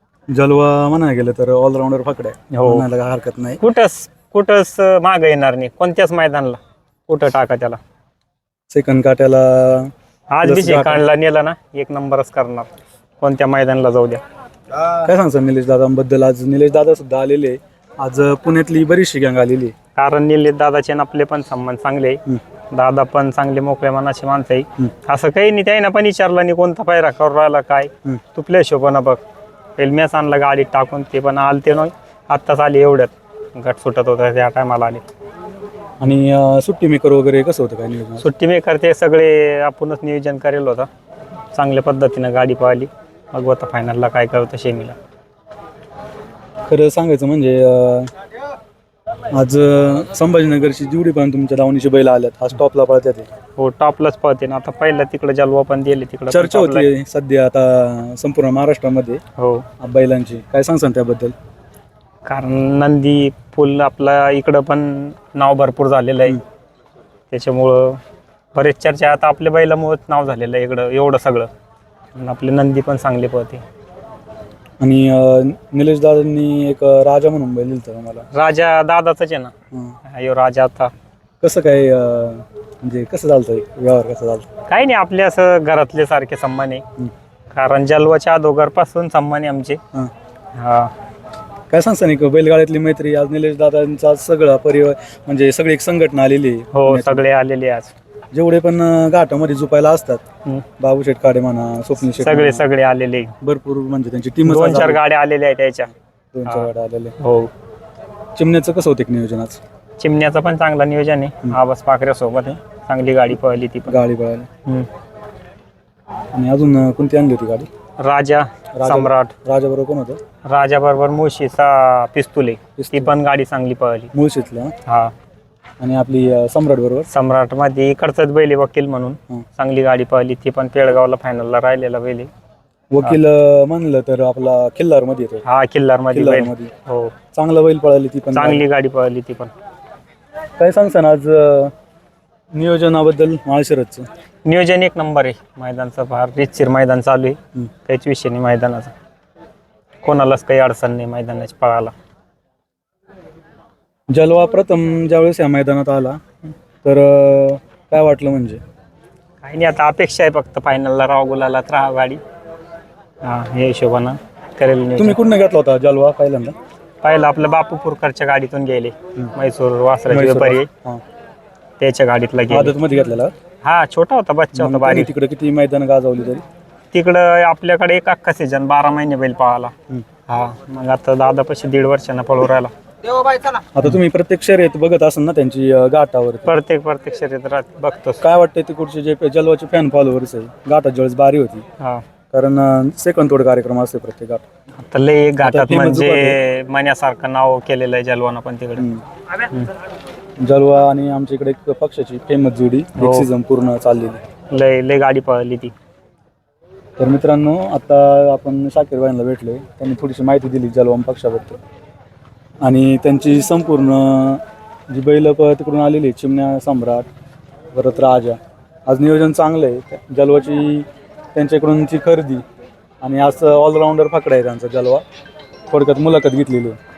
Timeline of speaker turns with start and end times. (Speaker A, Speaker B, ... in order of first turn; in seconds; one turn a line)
Speaker A: 0.3-3.6
Speaker B: 2.5-2.9
Speaker B: 3.6-7.8
Speaker A: 8.7-9.9
Speaker B: 10.3-12.7
Speaker A: 10.4-11.0
Speaker B: 13.2-14.2
Speaker A: 15.0-19.7
Speaker B: 19.9-29.2
Speaker B: 29.8-35.0
Speaker A: 36.0-38.2
Speaker B: 38.2-40.9
Speaker B: 41.5-45.0
Speaker A: 46.7-48.1
Speaker A: 49.3-53.3
Speaker B: 53.6-56.9
Speaker A: 56.3-59.2
Speaker B: 59.4-59.7
Speaker A: 59.8-61.3
Speaker B: 62.2-66.4
Speaker B: 67.3-68.0
Speaker B: 68.5-71.5
Speaker B: 72.2-73.6
Speaker A: 74.8-78.3
Speaker B: 78.3-79.5
Speaker B: 80.1-80.9
Speaker A: 81.4-84.5
Speaker B: 84.7-86.8
Speaker B: 87.5-89.8
Speaker B: 90.6-90.9
Speaker A: 91.7-97.2
Speaker B: 96.7-97.9
Speaker A: 98.3-100.2
Speaker A: 100.8-102.7
Speaker B: 102.2-103.3
Speaker A: 103.4-105.0
Speaker B: 104.5-105.9
Speaker A: 106.3-107.2
Speaker B: 107.2-107.5
Speaker A: 108.4-109.6
Speaker B: 110.0-114.0
Speaker A: 113.9-114.5
Speaker A: 116.3-117.7
Speaker B: 118.0-119.3
Speaker A: 118.8-120.2
Speaker B: 120.5-124.1
Speaker A: 122.8-123.1
Speaker A: 124.1-124.7
Speaker B: 124.9-125.1
Speaker A: 125.8-127.1
Speaker B: 127.1-132.3
Speaker A: 132.9-135.4
Speaker B: 135.4-137.1
Speaker A: 136.1-136.7
Speaker A: 137.3-138.6
Speaker B: 138.3-139.5
Speaker A: 140.6-141.7
Speaker A: 142.5-144.1
Speaker B: 144.4-148.9
Speaker B: 150.0-151.9
Speaker A: 154.1-156.2
Speaker A: 156.8-158.6
Speaker B: 159.4-162.2
Speaker B: 163.2-165.2
Speaker A: 165.0-166.6
Speaker B: 167.0-170.7
Speaker A: 170.1-171.0
Speaker B: 171.8-172.8
Speaker A: 172.5-173.3
Speaker B: 173.6-175.1
Speaker A: 174.6-176.4
Speaker B: 176.9-179.7
Speaker B: 180.3-182.7
Speaker A: 183.8-186.5
Speaker B: 186.5-188.2
Speaker A: 188.2-191.6
Speaker A: 192.3-194.4
Speaker B: 194.8-198.9
Speaker A: 195.4-196.4
Speaker A: 198.8-199.0
Speaker A: 200.4-204.2
Speaker B: 203.0-203.3
Speaker B: 204.5-205.7
Speaker A: 207.0-211.6
Speaker A: 212.6-217.1
Speaker A: 217.7-222.4
Speaker A: 223.0-225.0
Speaker A: 225.7-226.8